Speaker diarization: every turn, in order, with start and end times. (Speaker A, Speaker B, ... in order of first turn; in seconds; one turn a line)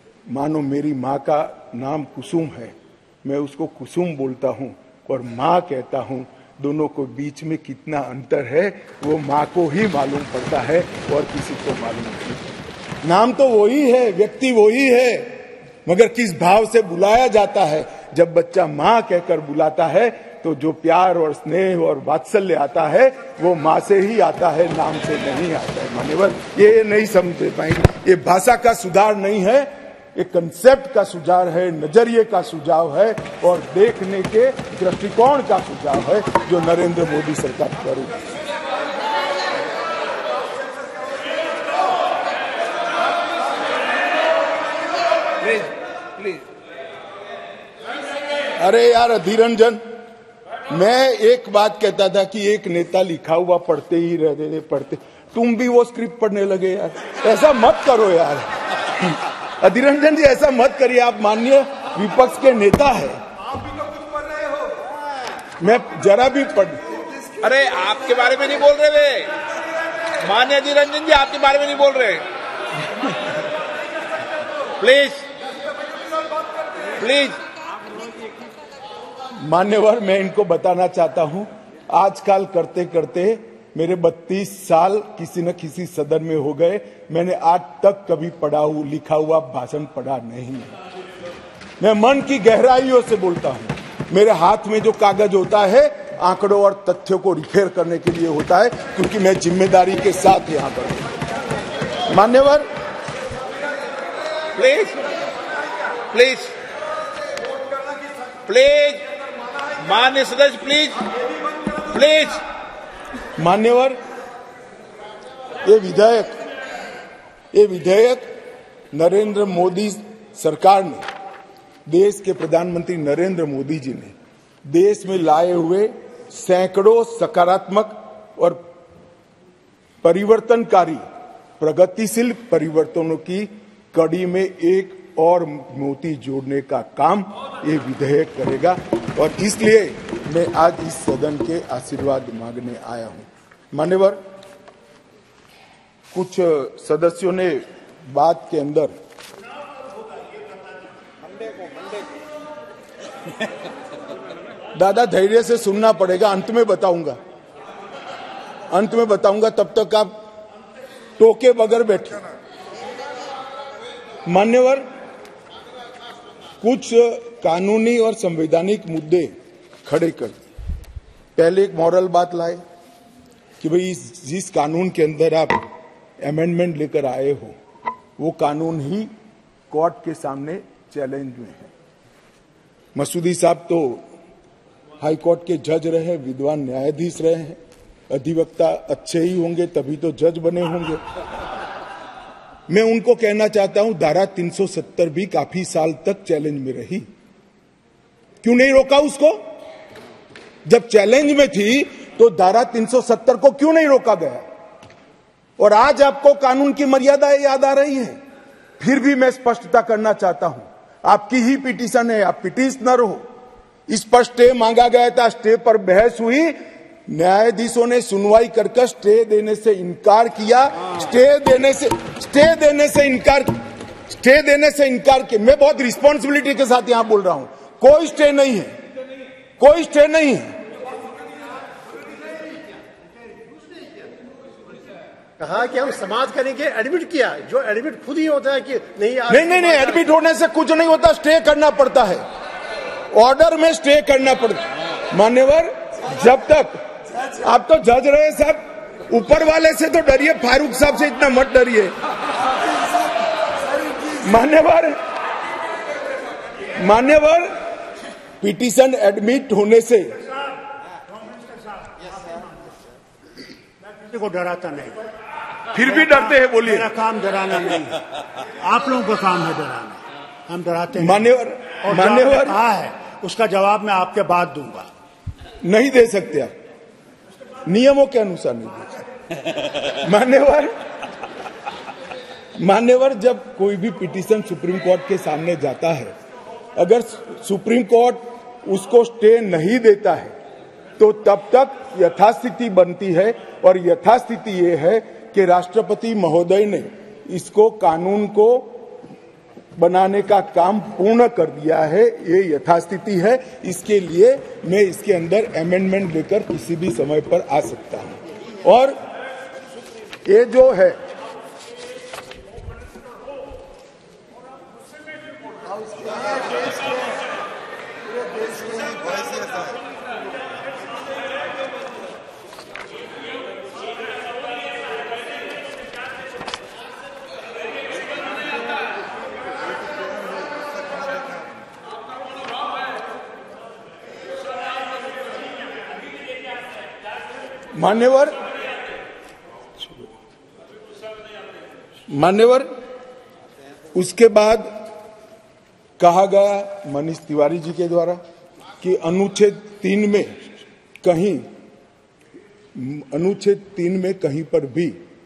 Speaker A: 0.3-38.2
Speaker B: 45.4-46.4
Speaker A: 48.6-49.8
Speaker A: 50.7-58.5
Speaker A: 59.0-63.2
Speaker A: 65.6-66.8
Speaker B: 67.4-69.3
Speaker B: 70.2-72.2
Speaker B: 74.8-75.2
Speaker B: 77.0-77.4
Speaker A: 79.4-90.7
Speaker A: 91.8-101.1
Speaker A: 102.1-102.7
Speaker B: 104.5-105.1
Speaker B: 106.1-106.5
Speaker B: 108.5-109.1
Speaker B: 109.8-111.1
Speaker B: 111.8-112.4
Speaker A: 113.4-114.0
Speaker A: 115.6-116.4
Speaker A: 117.5-118.3
Speaker A: 118.9-121.0
Speaker A: 121.9-124.1
Speaker A: 124.7-128.6
Speaker A: 130.0-131.0
Speaker A: 131.6-144.2
Speaker A: 146.1-148.9
Speaker A: 154.8-157.2
Speaker A: 158.7-160.2
Speaker A: 161.2-162.2
Speaker A: 164.2-164.8
Speaker A: 166.6-169.3
Speaker A: 169.8-170.5
Speaker A: 171.3-172.6
Speaker A: 173.6-175.7
Speaker A: 176.2-177.6
Speaker A: 178.2-179.1
Speaker A: 179.7-181.7
Speaker A: 182.9-184.0
Speaker A: 185.0-187.6
Speaker A: 188.1-191.0
Speaker A: 192.7-197.1
Speaker A: 198.4-199.4
Speaker A: 200.7-204.4
Speaker A: 205.6-208.2
Speaker A: 208.8-213.2
Speaker A: 213.9-223.5
Speaker A: 224.1-228.8
Speaker A: 229.6-230.6
Speaker C: 235.4-240.0
Speaker A: 239.3-242.2
Speaker A: 243.1-251.9
Speaker A: 254.2-255.0
Speaker A: 256.8-257.5
Speaker A: 258.4-260.2
Speaker C: 264.1-265.0
Speaker A: 265.7-266.9
Speaker C: 265.9-268.0
Speaker C: 268.6-271.3
Speaker A: 270.9-272.6
Speaker C: 271.8-274.9
Speaker A: 275.6-276.5
Speaker A: 277.6-279.0
Speaker A: 279.9-280.8
Speaker A: 282.6-286.1
Speaker A: 286.8-290.3
Speaker A: 291.0-298.9
Speaker A: 299.8-309.0
Speaker A: 310.2-311.0
Speaker A: 337.7-338.4
Speaker A: 342.1-342.7
Speaker A: 343.9-344.8
Speaker A: 346.0-348.2
Speaker A: 348.8-350.4
Speaker A: 351.0-351.4
Speaker A: 352.7-354.9